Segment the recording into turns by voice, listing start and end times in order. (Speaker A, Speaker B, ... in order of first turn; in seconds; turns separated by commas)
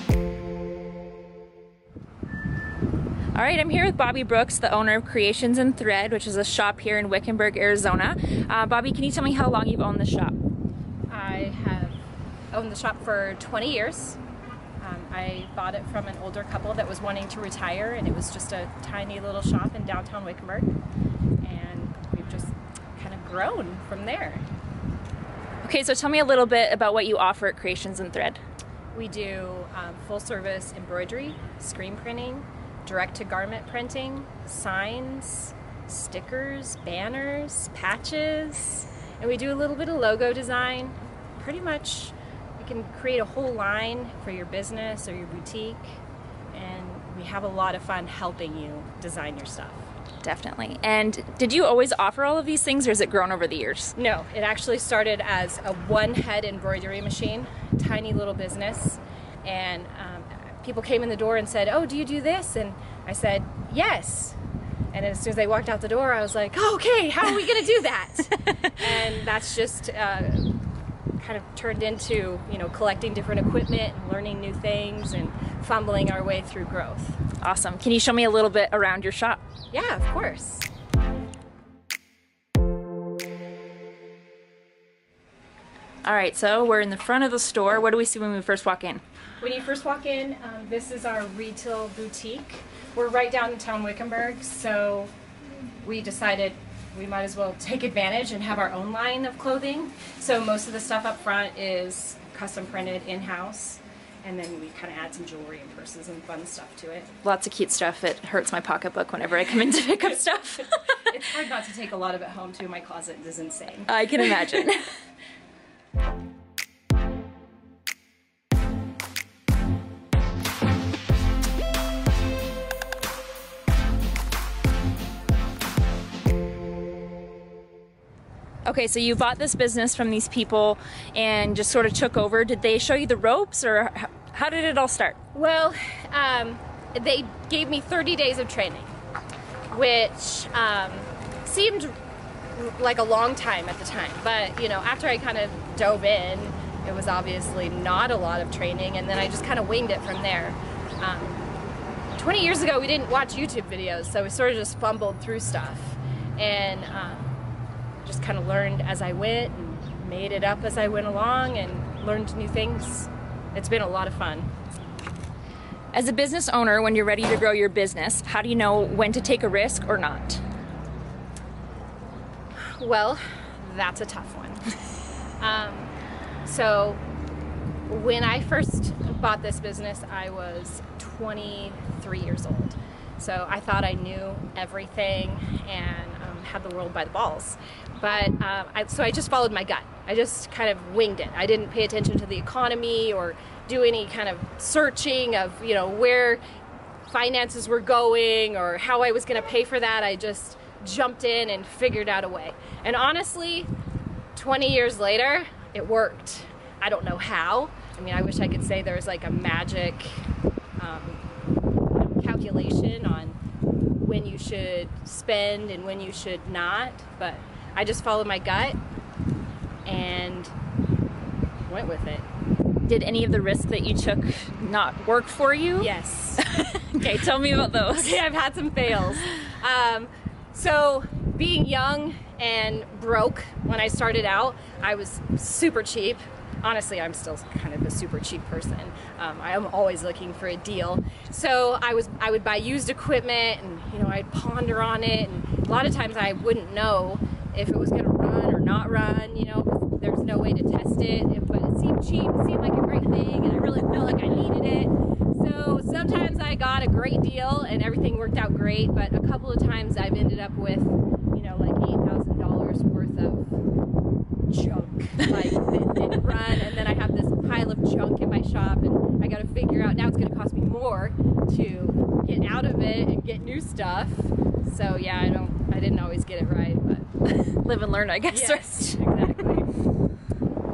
Speaker A: 3.4-10.4, Speaker B: 11.1-12.0, Speaker B: 12.5-14.2, Speaker B: 14.8-20.7, Speaker B: 21.4-24.4, Speaker A: 25.6-28.4, Speaker B: 28.9-46.0, Speaker B: 46.5-49.9, Speaker A: 50.2-54.0, Speaker B: 54.0-64.4, Speaker B: 64.9-70.5, Speaker B: 71.2-77.2, Speaker A: 77.4-79.4, Speaker B: 79.7-80.7, Speaker A: 86.0-89.0, Speaker B: 89.4-95.1, Speaker B: 95.8-107.1, Speaker A: 107.2-111.0, Speaker B: 111.1-113.9, Speaker A: 113.9-114.9, Speaker A: 128.7-135.2, Speaker B: 135.3-138.9, Speaker B: 139.7-142.0, Speaker B: 142.5-151.5, Speaker B: 152.2-157.3, Speaker B: 158.1-164.5, Speaker A: 165.9-170.4, Speaker B: 172.7-174.6, Speaker B: 175.4-175.9, Speaker B: 176.4-177.0, Speaker B: 177.9-196.4, Speaker B: 197.1-203.7, Speaker B: 204.3-211.2, Speaker B: 212.1-213.4, Speaker B: 214.0-218.8, Speaker B: 219.9-220.5, Speaker B: 221.7-222.2, Speaker A: 222.9-228.2, Speaker B: 225.8-226.4, Speaker B: 227.9-263.5, Speaker B: 264.5-277.1, Speaker A: 277.3-279.0, Speaker B: 278.3-279.7